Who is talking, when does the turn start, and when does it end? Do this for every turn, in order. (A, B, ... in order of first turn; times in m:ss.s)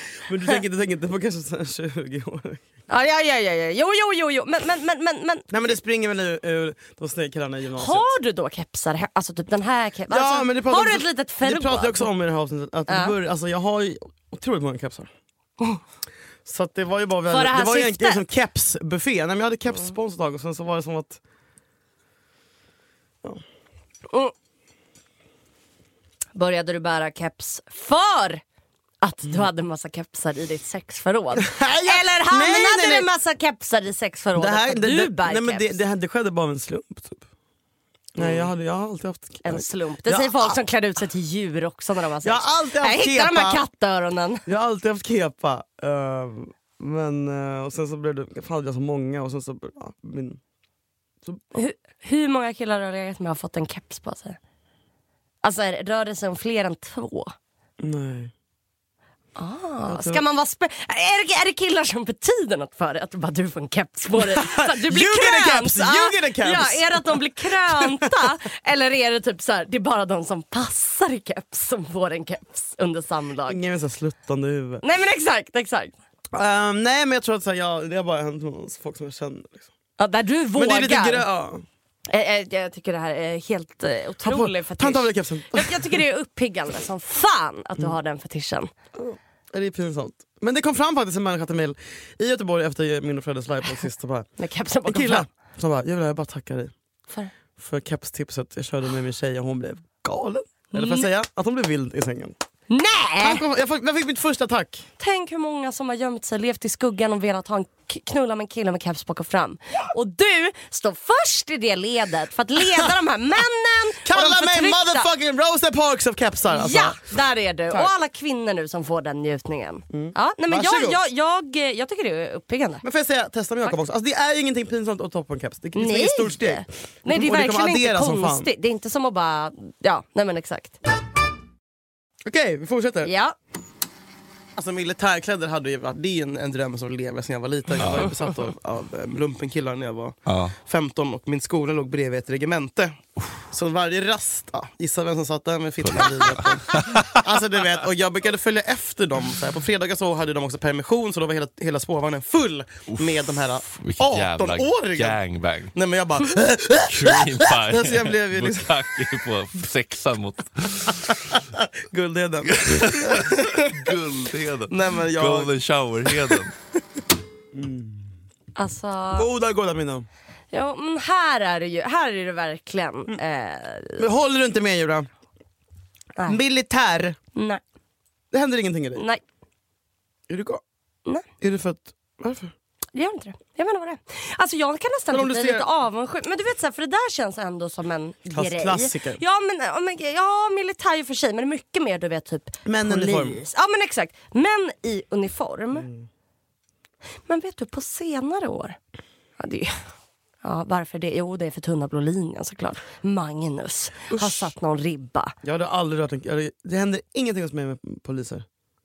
0:00.2-0:02.6 A
0:02.9-0:05.8 B
0:05.5-0:08.1 A
0:07.8-0:12.1 B
0:10.1-0:15.1 A
0:12.9-0:13.2 B
0:16.4-0:21.2 A
0:17.3-0:18.2 B
0:26.4-0:28.4 B
0:29.0-0:35.8 B
0:31.4-0:33.1 A
0:34.4-0:37.2 A
0:38.2-0:40.6 A
0:38.2-0:38.5 B
0:39.4-0:44.4 B
0:42.2-0:43.6 A
0:44.5-0:50.4 A
0:51.5-0:54.4 B
0:55.4-0:57.3 B
0:57.8-0:58.3 A
0:59.4-1:13.6 B
0:59.9-1:00.2 A
1:04.2-1:08.0 A
1:13.5-1:14.8 A
1:14.8-1:16.0 B
1:16.3-1:19.7 A
1:20.0-1:21.3 B
1:20.6-1:21.6 A
1:22.1-1:28.7 B
1:24.2-1:26.0 A
1:29.0-1:34.3 A
1:34.4-1:35.3 B
1:34.9-1:36.7 A
1:37.6-1:42.4 A
1:40.7-1:41.1 B
1:42.7-1:43.4 B
1:43.2-1:44.9 A
1:45.0-1:55.1 B
1:54.0-1:57.0 A
1:56.5-2:02.8 B
1:59.9-2:01.0 A
2:02.8-2:08.5 A
2:05.8-2:10.8 B
2:12.3-2:13.1 A
2:13.0-2:13.4 B
2:14.6-2:35.2 A
2:17.8-2:18.2 C
2:20.3-2:20.6 C
2:25.8-2:27.2 C
2:32.9-2:35.8 C
2:35.8-2:38.7 A
2:36.8-2:41.2 C
2:41.3-2:43.9 A
2:42.5-2:46.6 C
2:44.7-2:45.5 A
2:46.1-2:46.4 A
2:47.5-2:48.1 A
2:48.6-2:49.3 B
2:49.2-2:50.1 A
2:50.5-2:54.1 B
2:54.0-2:55.1 A
2:56.3-2:57.2 A
2:57.4-2:57.6 B
2:58.3-2:59.0 A
2:59.0-2:59.2 B
3:00.3-3:00.6 A
3:01.4-3:02.5 A
3:03.0-3:15.9 B
3:05.1-3:05.7 A
3:08.3-3:09.2 A
3:12.7-3:13.4 A
3:15.8-3:16.1 A
3:17.3-3:18.8 B
3:19.4-3:19.8 B
3:20.4-3:25.4 B
3:24.1-3:24.4 A
3:25.4-3:28.5 A